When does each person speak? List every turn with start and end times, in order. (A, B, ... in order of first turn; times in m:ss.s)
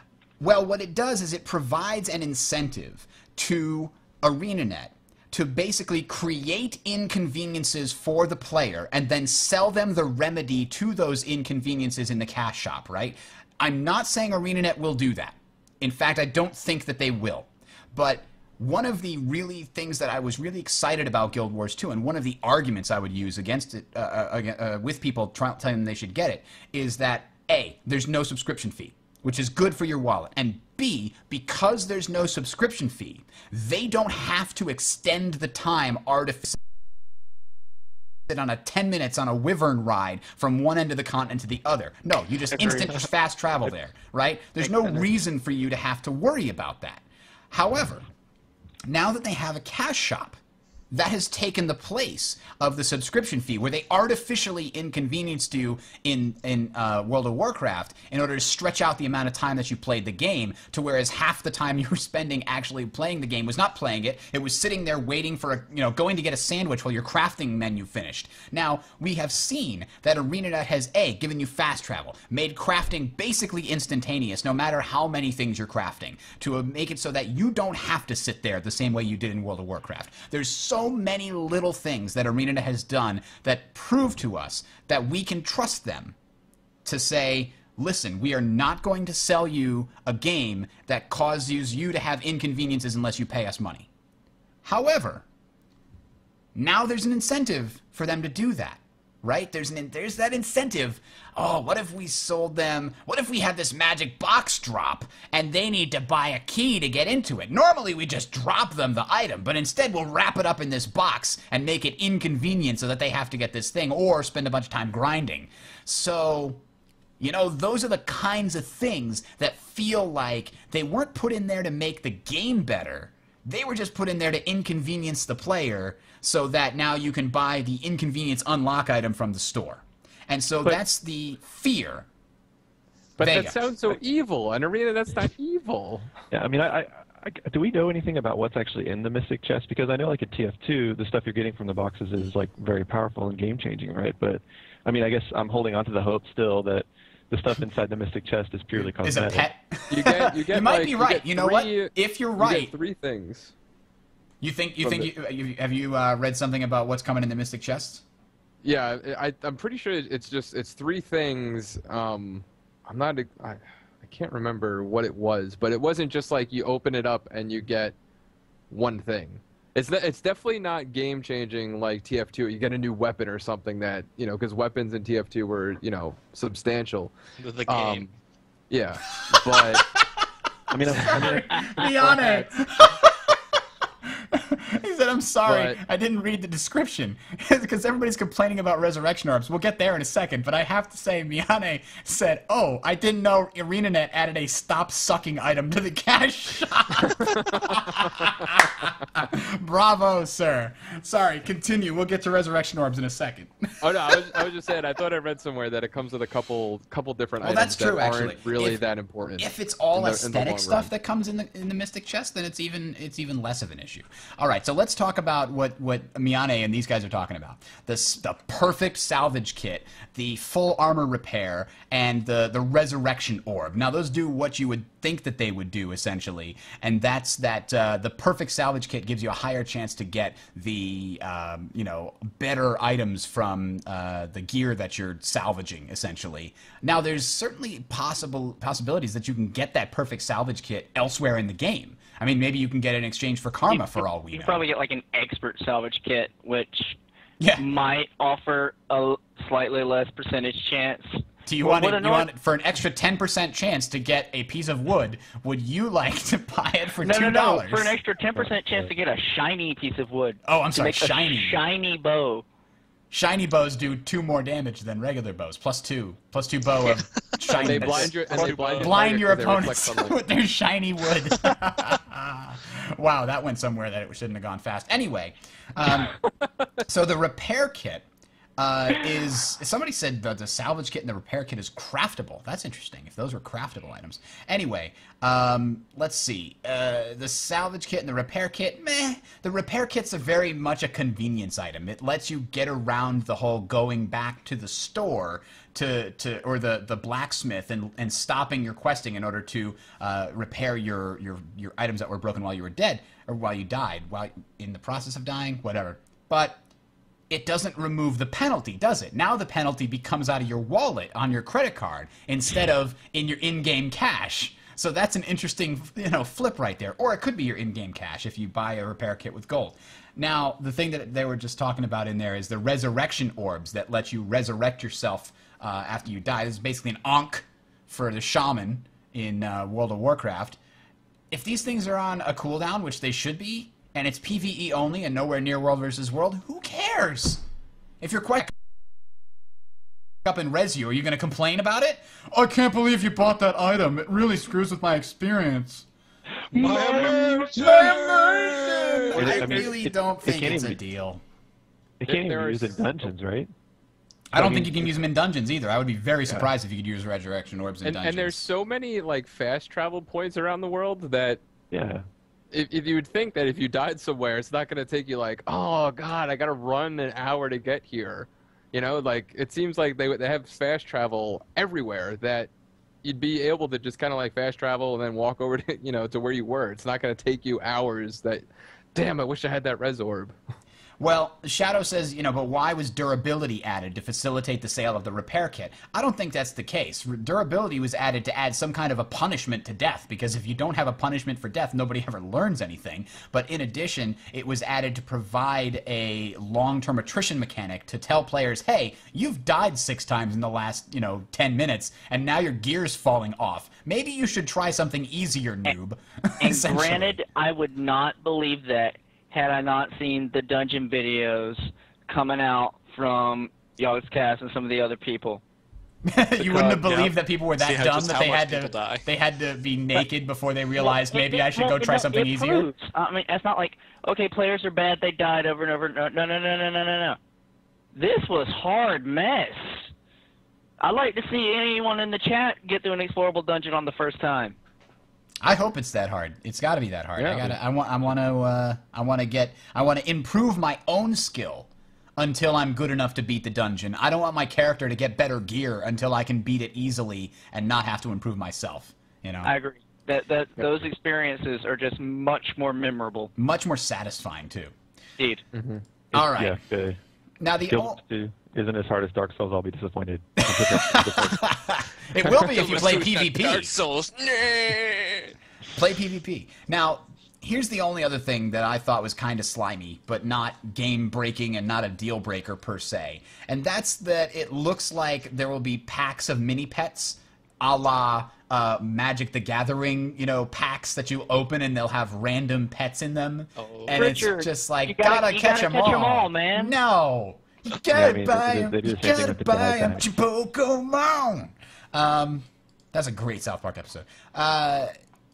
0:00.4-0:36.6 A
0:38.3-0:48.0 A
0:42.5-0:43.0 B
0:44.6-0:45.0 B
0:48.9-0:50.4 A
0:50.9-1:26.2 A
1:26.8-1:33.9 A
1:34.6-1:35.2 A
1:36.6-1:56.6 A
1:57.2-2:12.1 A
2:13.2-2:16.1 C
2:13.2-2:13.6 A
2:16.3-2:29.5 D
2:28.8-2:32.7 A
2:29.9-2:33.5 C
2:34.4-2:38.0 A
2:34.8-2:35.1 C
2:38.6-2:48.0 C
2:48.7-2:57.1 C
2:57.4-2:58.1 E
2:57.7-2:58.1 C
2:58.7-2:59.9 C
2:59.2-3:24.4 A
3:00.7-3:02.2 D
3:01.2-3:01.8 B
3:05.4-3:05.8 C
3:23.8-3:30.9 C
3:27.4-3:28.8 A
3:29.4-4:04.6 A
4:03.7-4:07.0 B
4:07.4-4:07.7 A
4:07.6-4:12.3 B
4:11.5-4:18.0 A
4:17.0-4:22.4 B
4:20.4-4:21.6 A
4:23.1-4:36.2 A
4:27.5-4:30.2 C
4:28.3-4:29.0 E
4:36.9-4:38.1 A
4:38.6-5:06.6 A
5:07.3-5:30.6 A
5:31.3-5:37.4 A
5:38.0-5:38.6 A
5:40.2-5:45.9 A
5:46.5-5:49.0 E
5:46.5-5:51.2 A
5:46.6-5:47.5 B
5:49.1-5:49.7 C
5:49.1-5:50.8 D
5:52.0-5:53.5 D
5:52.0-5:52.9 C
5:54.3-5:58.5 A
5:54.4-5:54.9 D
5:57.8-6:01.4 C
6:01.7-6:02.0 D
6:02.5-6:12.5 C
6:13.0-6:20.4 C
6:21.0-6:47.2 A
6:46.4-6:55.4 B
6:56.1-7:02.7 A
6:56.6-6:57.1 E
6:57.6-6:59.0 E
7:00.8-7:07.2 B
7:08.0-7:09.9 B
7:10.8-7:14.6 B
7:15.4-7:29.5 A
7:17.2-7:17.5 C
7:29.4-7:33.3 B
7:33.4-7:34.7 A
7:35.2-7:35.4 B
7:35.5-7:35.8 C
7:36.1-7:36.6 A
7:36.1-7:37.0 D
7:37.4-7:38.0 A
7:37.7-7:41.5 D
7:40.4-7:43.8 A
7:42.3-7:45.3 E
7:45.8-8:14.9 A
8:03.6-8:04.0 E
8:03.9-8:06.8 B
8:07.9-8:10.0 D